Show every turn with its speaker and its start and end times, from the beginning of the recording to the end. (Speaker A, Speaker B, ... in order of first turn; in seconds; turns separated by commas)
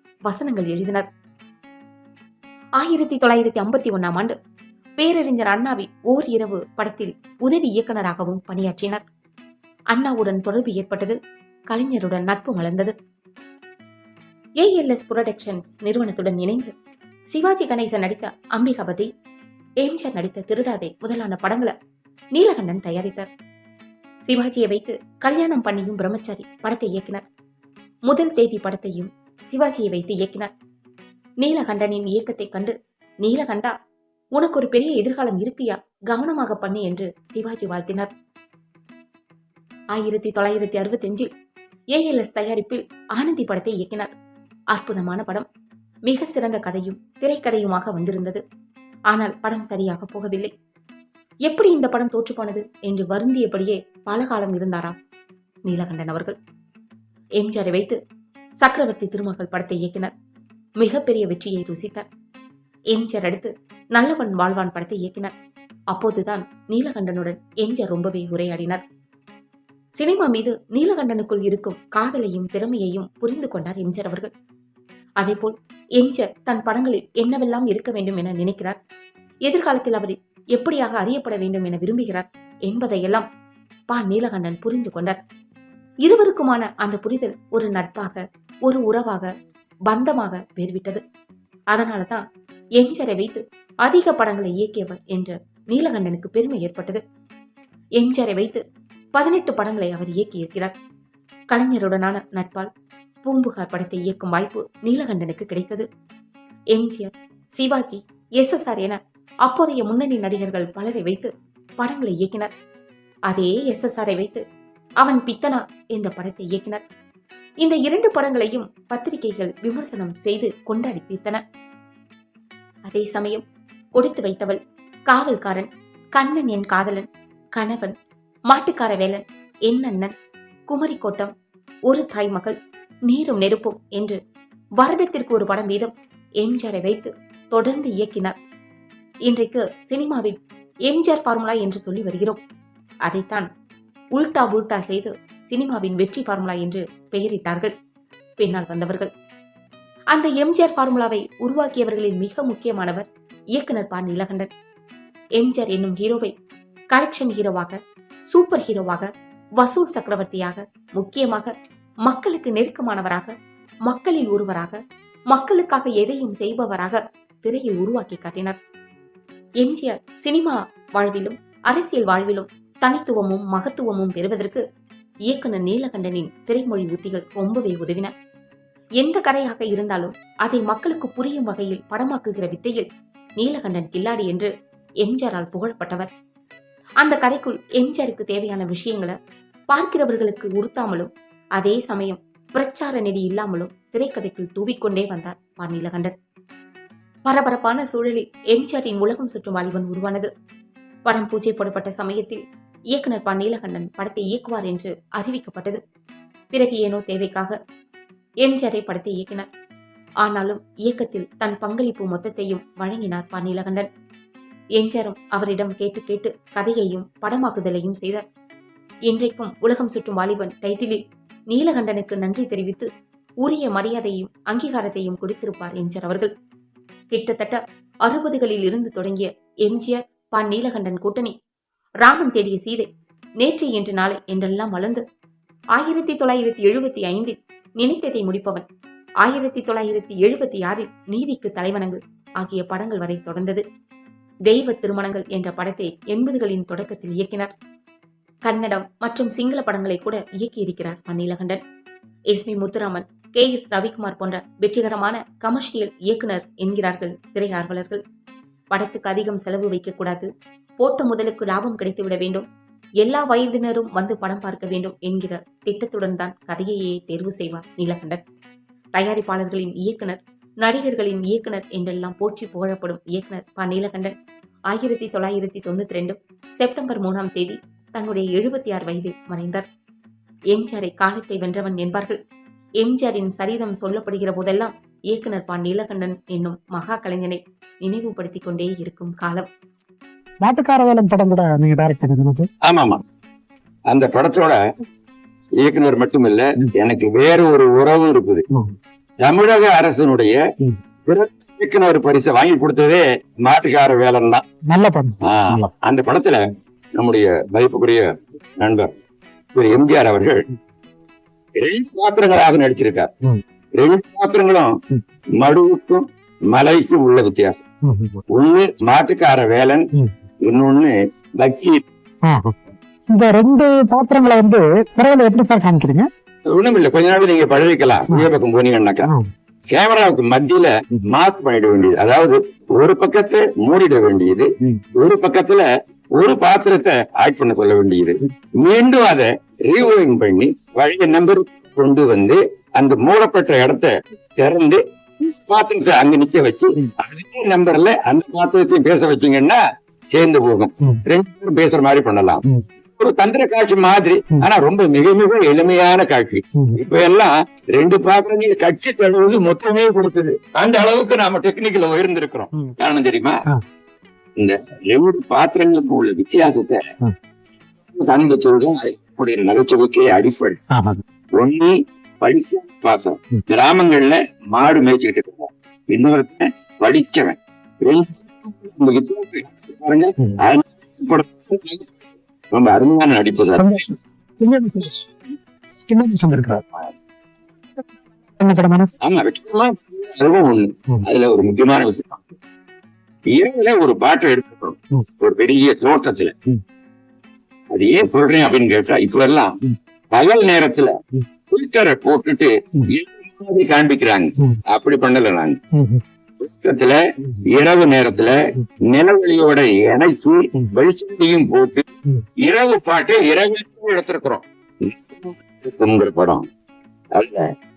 Speaker A: 0.3-1.1, Speaker A: 2.8-4.3, Speaker A: 5.0-9.0, Speaker A: 9.9-11.2, Speaker A: 11.7-12.9, Speaker A: 14.6-16.7, Speaker A: 17.3-19.1, Speaker A: 19.8-21.7, Speaker A: 22.3-23.3, Speaker A: 24.3-27.2, Speaker A: 28.1-30.5, Speaker A: 31.4-33.7, Speaker A: 34.3-38.1, Speaker A: 39.9-41.3, Speaker A: 41.9-44.1, Speaker A: 44.7-45.5, Speaker A: 46.1-48.4, Speaker A: 49.1-50.5, Speaker A: 51.5-54.9, Speaker A: 55.6-56.4, Speaker A: 57.4-58.0, Speaker A: 58.6-60.1, Speaker A: 60.8-62.0, Speaker A: 62.9-65.3, Speaker A: 65.9-68.8, Speaker A: 70.0-74.3, Speaker A: 75.2-78.8, Speaker A: 79.5-83.3, Speaker A: 83.9-85.2, Speaker A: 86.0-89.3, Speaker A: 89.9-91.0, Speaker A: 91.7-92.2, Speaker A: 92.8-97.0, Speaker A: 98.0-98.6, Speaker A: 99.1-100.7, Speaker A: 101.5-102.7, Speaker A: 103.2-105.8, Speaker A: 106.7-112.5, Speaker A: 113.3-114.4, Speaker A: 115.0-116.8, Speaker A: 117.6-121.4, Speaker A: 122.9-127.9, Speaker A: 128.5-130.1, Speaker A: 130.7-131.3, Speaker A: 131.9-132.5, Speaker A: 133.1-134.2, Speaker A: 134.8-135.9, Speaker A: 136.4-138.3, Speaker A: 139.2-142.4, Speaker A: 143.1-143.5, Speaker A: 144.1-147.7, Speaker A: 148.4-149.1, Speaker A: 150.1-154.5, Speaker A: 155.4-156.3, Speaker A: 156.9-157.8, Speaker A: 158.3-159.1, Speaker A: 159.6-161.5, Speaker A: 162.0-163.3, Speaker A: 163.8-164.8, Speaker A: 165.3-168.6, Speaker A: 169.6-174.6, Speaker A: 175.3-178.1, Speaker A: 179.0-182.9, Speaker A: 183.4-184.5, Speaker A: 185.0-186.1, Speaker A: 187.0-189.1, Speaker A: 189.7-196.1, Speaker A: 197.2-200.3, Speaker A: 201.0-202.4, Speaker A: 202.9-205.8, Speaker A: 206.5-207.5, Speaker A: 208.4-209.5, Speaker A: 210.2-213.9, Speaker A: 214.8-218.2, Speaker A: 219.1-222.9, Speaker A: 223.4-226.3, Speaker A: 227.1-231.3, Speaker A: 232.0-232.9, Speaker A: 233.4-235.0, Speaker A: 235.7-238.7, Speaker A: 239.2-243.6, Speaker A: 244.5-247.5, Speaker A: 248.4-251.6, Speaker A: 252.3-258.0, Speaker A: 258.7-262.4, Speaker A: 263.0-268.2, Speaker A: 268.9-274.1, Speaker A: 274.7-279.7, Speaker A: 280.5-282.2, Speaker A: 282.8-289.5, Speaker B: 290.4-292.5, Speaker C: 292.7-293.0, Speaker C: 293.9-294.6, Speaker C: 295.6-298.4, Speaker C: 299.2-300.4, Speaker C: 301.1-304.4, Speaker B: 304.7-305.7, Speaker C: 305.2-306.4, Speaker C: 307.0-308.1, Speaker C: 308.6-308.9, Speaker C: 309.5-310.4, Speaker C: 311.6-313.1, Speaker C: 313.8-314.7, Speaker C: 315.4-317.5, Speaker B: 317.8-318.2, Speaker C: 318.3-319.8, Speaker C: 320.4-321.8, Speaker B: 322.2-322.6, Speaker B: 323.1-326.1, Speaker C: 326.5-329.1, Speaker B: 329.0-329.3, Speaker C: 329.7-334.5, Speaker C: 335.0-335.6, Speaker C: 336.1-349.6, Speaker C: 350.1-352.4, Speaker C: 352.9-363.3, Speaker C: 364.4-366.8, Speaker C: 367.9-370.6, Speaker B: 370.7-371.0, Speaker C: 371.4-381.9, Speaker C: 382.5-383.7, Speaker B: 383.6-385.1, Speaker B: 385.9-386.6, Speaker B: 387.7-388.9, Speaker C: 389.0-392.2, Speaker C: 393.3-396.3, Speaker C: 397.7-399.5, Speaker C: 400.1-400.9, Speaker C: 401.5-405.5, Speaker B: 405.8-406.0, Speaker C: 406.4-408.3, Speaker C: 408.9-411.9, Speaker C: 412.4-416.5, Speaker C: 417.1-417.4